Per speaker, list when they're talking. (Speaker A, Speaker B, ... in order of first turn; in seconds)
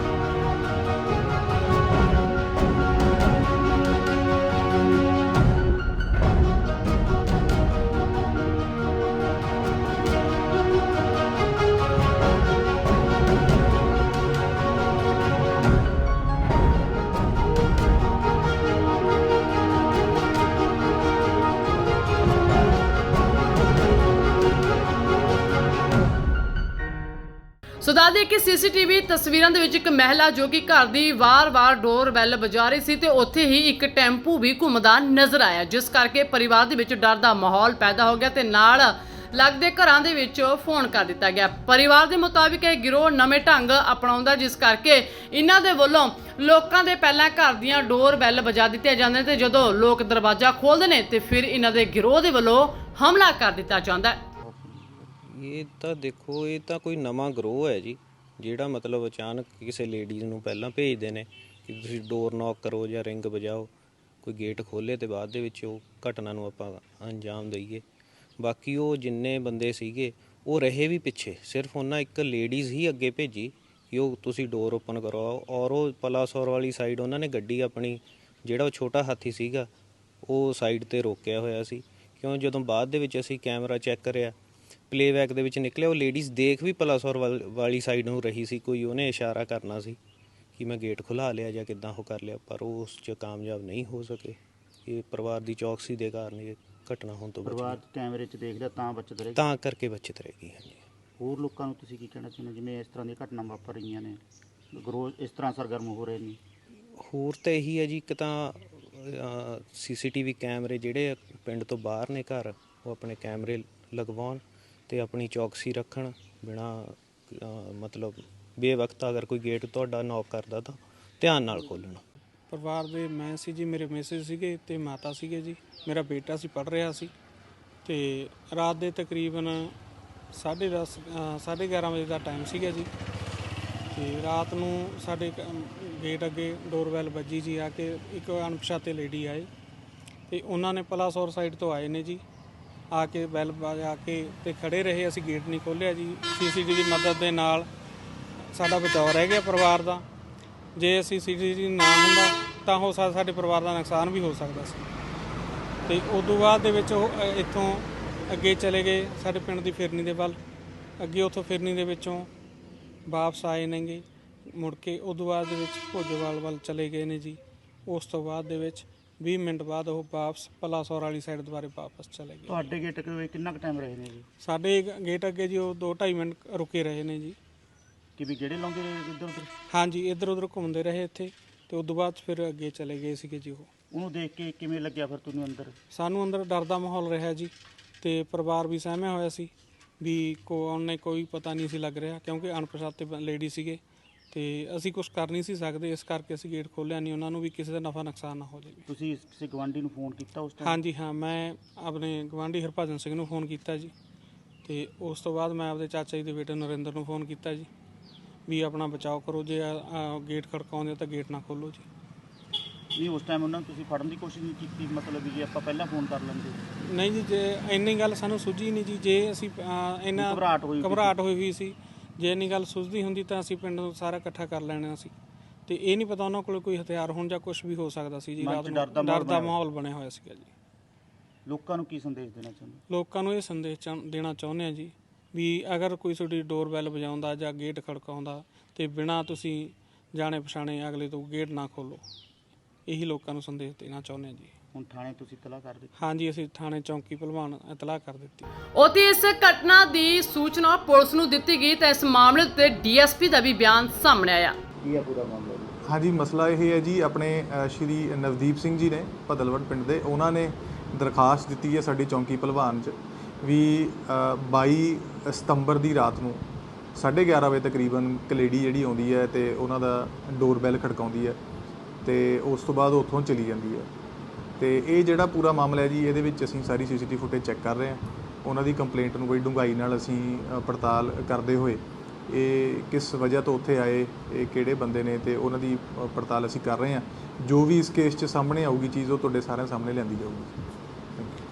Speaker A: 27.8-54.2, 248.7-254.6
Speaker B: 54.4-55.1, 97.4-99.4, 101.2-104.2, 104.7-106.4, 172.5-174.3, 178.2-179.5, 183.9-185.8, 198.9-200.8, 212.9-216.6, 220.2-221.2, 228.4-229.6, 231.4-232.8, 244.7-245.9, 254.8-255.8
Speaker C: 55.2-63.7, 64.2-67.8, 68.4-79.7, 80.2-84.3, 84.9-90.0, 90.5-97.8, 99.3-100.8, 107.0-122.0
Speaker D: 122.5-127.1, 127.8-129.7, 130.3-132.9, 133.9-139.5, 140.3-142.2, 142.9-147.7, 148.5-150.0, 150.8-154.8, 155.8-160.4, 161.0-162.3, 163.1-172.7, 174.4-177.4, 179.7-183.7, 185.9-189.5, 190.0-193.8, 194.3-198.8, 200.6-203.9, 204.6-207.7, 208.5-211.8, 216.8-225.1, 225.7-230.5, 232.9-242.0, 242.9-244.5, 246.0-248.5
Speaker E: 255.8-271.4, 272.0-273.9, 274.6-290.6